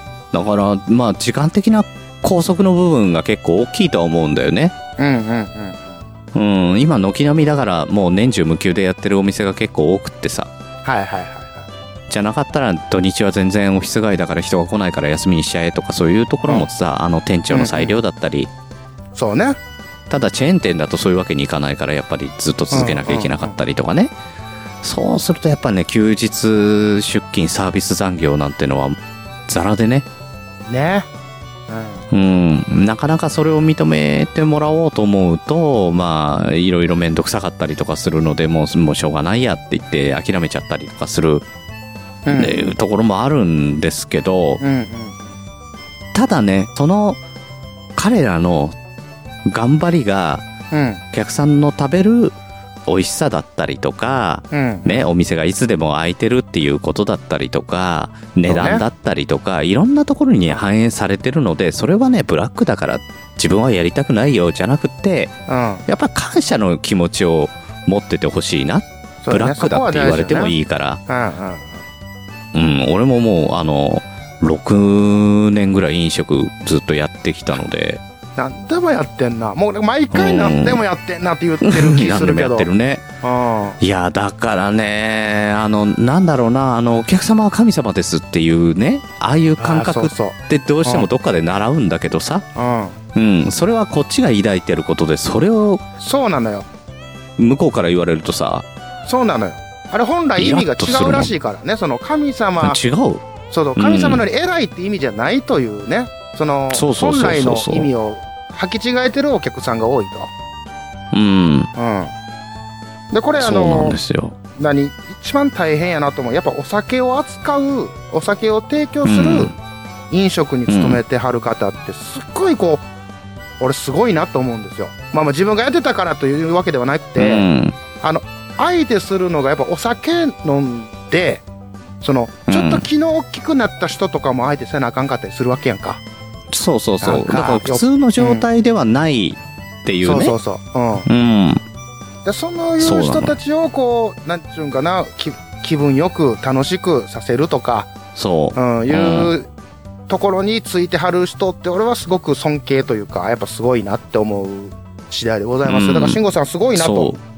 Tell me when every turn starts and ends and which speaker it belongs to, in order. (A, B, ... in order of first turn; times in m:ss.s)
0:00.3-0:04.7 A
0:05.0-0:06.0 B
0:06.3-0:10.5 A
0:10.8-0:11.7 B
0:12.1-0:18.5 A
0:17.5-0:17.9 B
0:19.1-0:19.6 B
0:20.1-0:24.1 A
0:22.7-0:23.6 B
0:24.8-0:29.0 A
0:29.5-0:30.0 A
0:30.7-0:31.1 B
0:31.7-0:32.0 B
0:32.1-0:41.4 A
0:42.2-0:42.7 B
0:42.3-0:44.6 A
0:44.6-0:45.4 B
0:46.1-0:47.2 A
0:48.0-0:48.8 A
0:49.5-0:50.4 A
0:50.7-0:51.0 B
0:51.1-0:52.4 A
0:52.9-1:05.3 A
0:54.5-0:55.1 B
0:58.4-0:58.8 B
1:05.5-1:05.8 B
1:05.9-1:11.0 A
1:09.2-1:10.5 B
1:11.1-1:11.8 B
1:12.5-1:18.0 A
1:18.4-1:22.7 B
1:20.1-1:20.8 A
1:21.6-1:23.0 A
1:23.2-1:23.8 B
1:23.8-1:32.4 A
1:29.6-1:31.1 B
1:32.6-1:33.0 B
1:33.1-1:35.8 A
1:36.0-1:36.7 B
1:37.4-1:38.6 A
1:39.0-1:42.8 B
1:40.4-1:41.3 A
1:42.6-1:43.2 A
1:43.5-1:50.3 B
1:43.8-1:44.2 A
1:46.7-1:47.9 A
1:51.1-1:51.7 A
1:51.8-1:52.1 B
1:53.1-1:54.0 B
1:53.4-1:54.4 A
1:54.6-1:59.5 B
1:59.0-1:59.6 A
2:00.1-2:02.8 B
2:00.7-2:01.0 A
2:03.6-2:07.5 B
2:07.2-2:07.8 A
2:08.0-2:11.4 B
2:12.0-2:16.0 B
2:12.5-2:12.8 A
2:16.5-2:20.4 A
2:17.0-2:18.4 B
2:20.0-2:21.1 B
2:21.0-2:21.6 A
2:22.2-2:27.9 B
2:22.8-2:23.4 A
2:28.2-2:29.3 A
2:28.5-2:29.5 B
2:30.1-2:37.2 B
2:35.6-2:36.2 A
2:36.7-2:37.2 A